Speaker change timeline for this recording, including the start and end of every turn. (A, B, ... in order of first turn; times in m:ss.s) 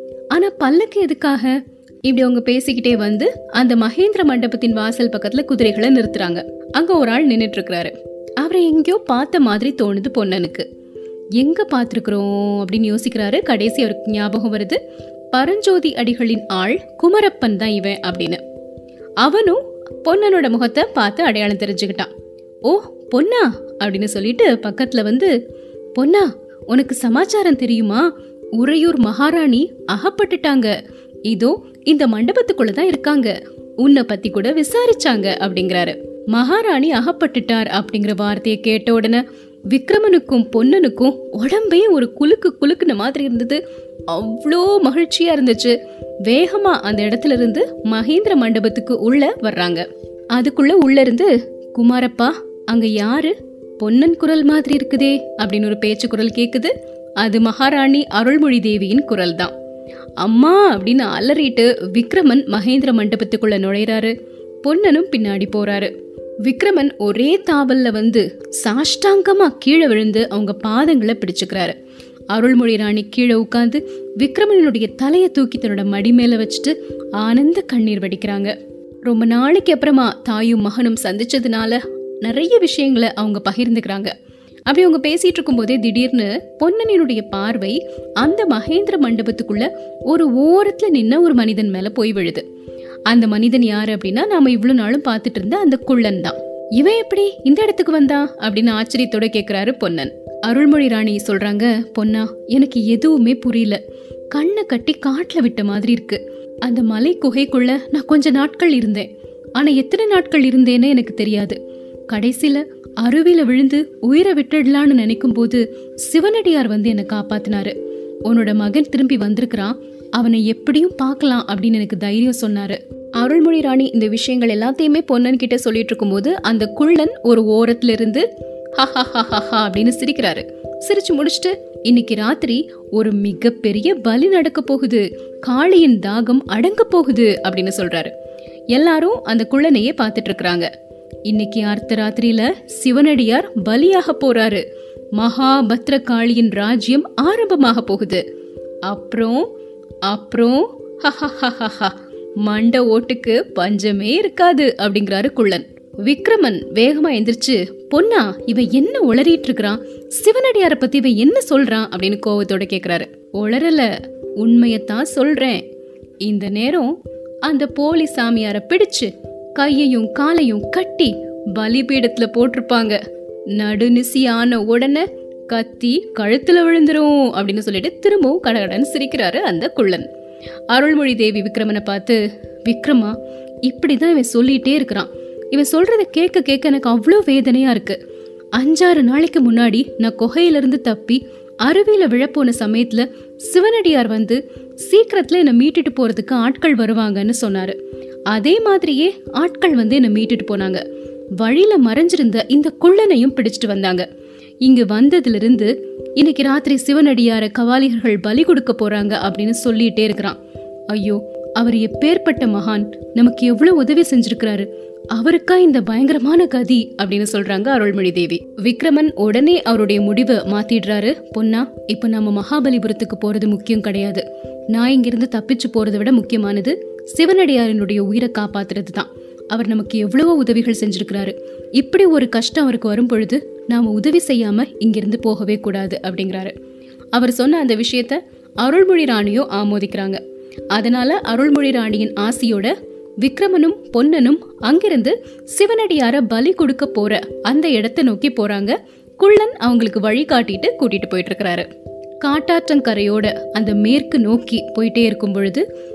0:00.3-0:10.7 A
0:11.4-0:14.8 A
0:15.3-0:18.4 A
0:19.2-0:22.1 A
0:22.6-0:25.3 A
0:25.9-0:30.7 A
0:31.3-0:59.5 A
1:00.2-1:05.9 A
1:06.4-1:11.7 A
1:12.3-1:18.5 A
1:19.0-1:24.1 A
1:24.7-1:32.4 A
1:33.1-1:43.8 A
1:44.3-1:51.6 A
1:52.1-1:57.7 A
1:58.3-2:08.3 A
2:08.8-2:18.1 A
2:18.7-2:20.7 A
2:21.3-2:24.6 A
2:25.2-2:28.2 A
2:28.8-2:29.4 A
2:30.0-2:45.6 A
2:46.2-2:46.9 A
2:47.4-2:53.0 A
2:53.5-3:00.1 A
3:00.7-3:08.0 A
3:08.6-3:17.8 A
3:18.3-3:20.8 A
3:21.4-3:24.0 A
3:24.6-3:30.4 A
3:30.9-3:56.5 A
3:57.1-4:00.2 A
4:00.7-4:11.7 A
4:12.2-4:15.6 A